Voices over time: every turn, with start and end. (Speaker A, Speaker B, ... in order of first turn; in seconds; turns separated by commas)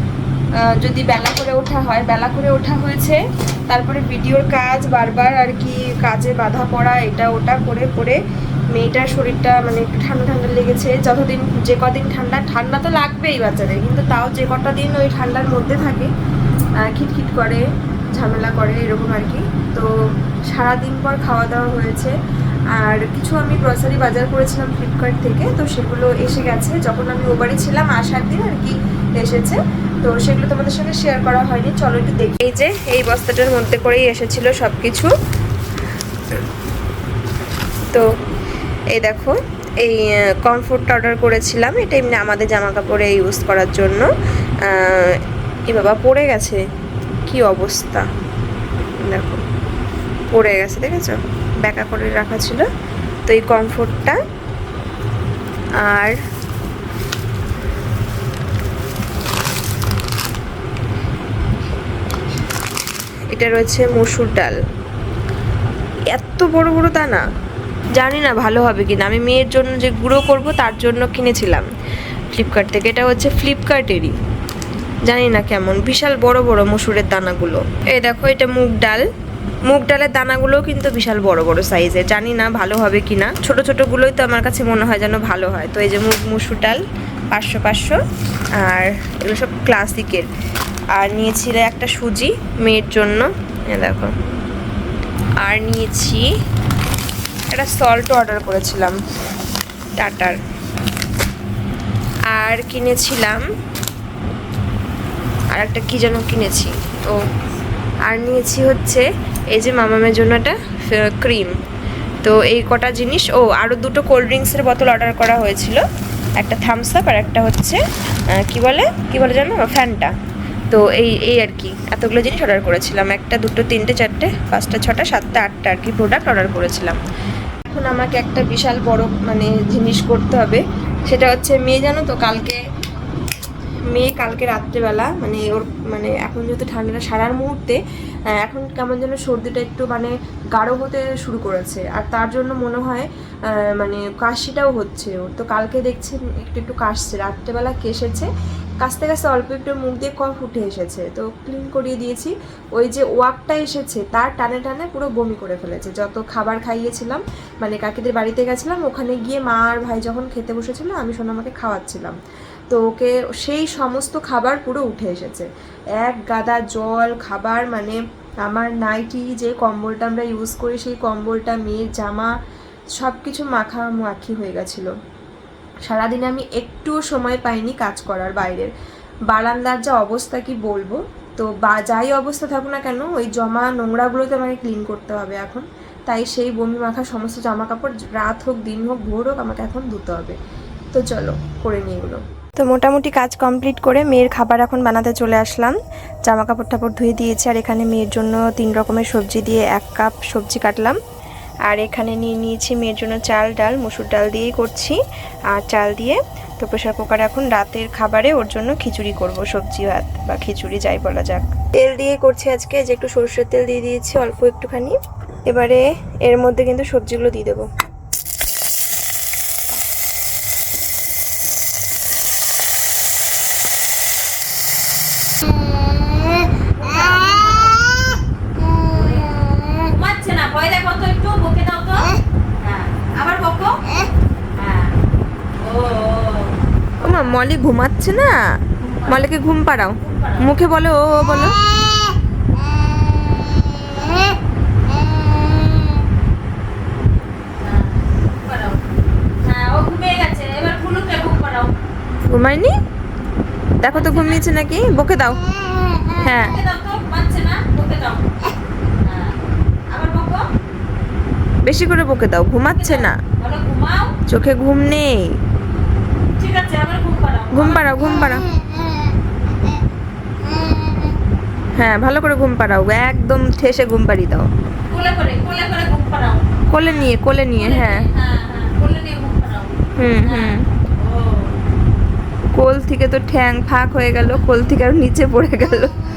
Speaker A: 0.6-8.2, Speaker A: 8.7-16.1, Speaker A: 16.9-17.6, Speaker A: 18.2-19.9, Speaker A: 20.5-22.2, Speaker A: 22.8-35.1, Speaker A: 38.9-44.1, Speaker A: 44.7-46.6, Speaker A: 47.3-48.1, Speaker A: 49.1-49.4, Speaker A: 50.3-52.7, Speaker A: 53.3-54.2, Speaker A: 55.8-56.2, Speaker A: 63.3-64.6, Speaker A: 66.1-67.2, Speaker A: 68.0-71.7, Speaker A: 72.3-74.2, Speaker A: 75.1-79.1, Speaker A: 79.7-88.0, Speaker A: 88.6-90.3, Speaker A: 91.0-94.1, Speaker A: 95.4-96.2, Speaker A: 97.5-99.0, Speaker A: 100.0-100.4, Speaker A: 102.3-103.4, Speaker A: 105.5-107.2, Speaker A: 108.1-111.5, Speaker A: 112.2-115.8, Speaker A: 116.4-117.8, Speaker A: 118.4-120.1, Speaker A: 120.7-127.0, Speaker A: 127.7-132.6, Speaker A: 133.9-137.8, Speaker A: 138.4-148.3, Speaker A: 148.8-162.2, Speaker A: 162.7-165.5, Speaker A: 166.0-172.3, Speaker A: 173.0-174.9, Speaker A: 175.9-178.7, Speaker A: 179.3-190.4, Speaker A: 190.9-201.0, Speaker A: 201.7-205.0, Speaker A: 205.5-217.7, Speaker B: 226.8-227.8, Speaker B: 228.8-229.3, Speaker B: 229.8-233.8, Speaker B: 234.6-234.9, Speaker B: 235.6-237.4, Speaker A: 237.0-238.4, Speaker B: 238.8-239.3, Speaker A: 239.1-241.5, Speaker B: 240.0-240.5, Speaker B: 247.6-248.8, Speaker B: 249.4-251.7, Speaker A: 252.3-252.8, Speaker A: 253.8-255.4, Speaker B: 253.9-254.4, Speaker A: 256.2-256.6, Speaker B: 256.2-258.5, Speaker B: 259.0-259.4, Speaker B: 259.9-260.4, Speaker A: 261.6-263.2, Speaker B: 262.8-264.1, Speaker A: 264.3-265.4, Speaker B: 266.4-268.4, Speaker A: 267.5-268.4, Speaker A: 271.8-274.5, Speaker B: 274.9-281.5, Speaker A: 276.7-278.1, Speaker A: 280.0-280.7, Speaker A: 282.5-285.9